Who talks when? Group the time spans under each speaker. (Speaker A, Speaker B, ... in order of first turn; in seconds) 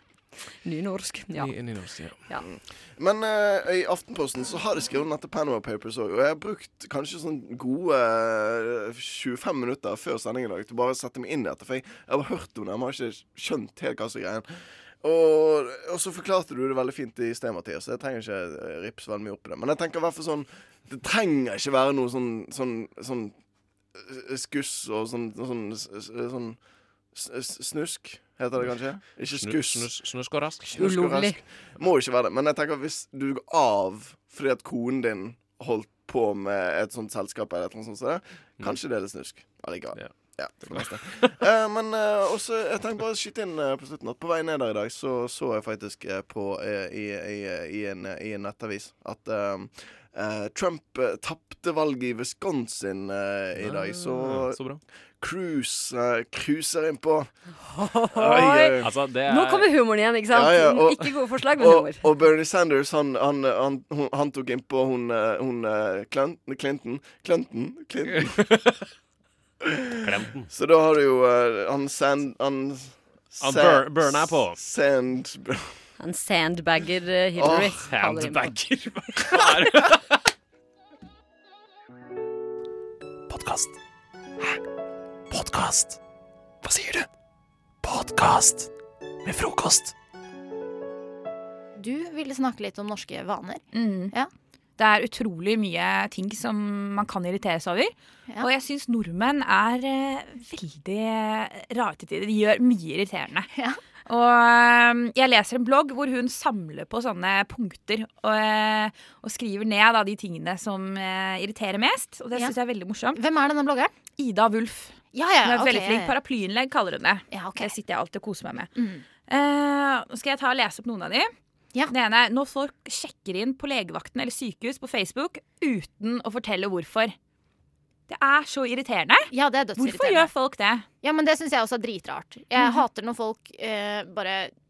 Speaker A: 0.6-1.7, 30.7-31.4, 57.7-62.1, 76.0-78.6
Speaker B: 1.3-2.2, 28.6-30.9, 39.9-41.4, 53.6-54.8, 58.8-59.7, 68.1-68.8, 70.0-70.5, 73.4-74.6, 77.6-80.2
Speaker C: 2.4-14.5, 15.0-23.4, 23.9-29.9, 30.6-57.3, 58.1-58.9, 60.3-68.6, 69.6-75.8, 77.4-77.8
Speaker D: 83.3-83.8, 85.3-86.0, 86.6-87.1, 87.8-88.7, 89.2-89.9
Speaker E: 91.8-94.3, 103.5-103.8, 112.3-112.6, 113.1-113.9, 115.1-116.2, 117.3-117.8, 118.7-119.0, 129.3-130.3, 131.0-134.5
Speaker F: 93.7-94.1, 94.8-103.5, 104.1-113.2, 114.2-118.7, 119.3-121.3, 121.9-127.2, 128.1-130.9, 132.6-132.8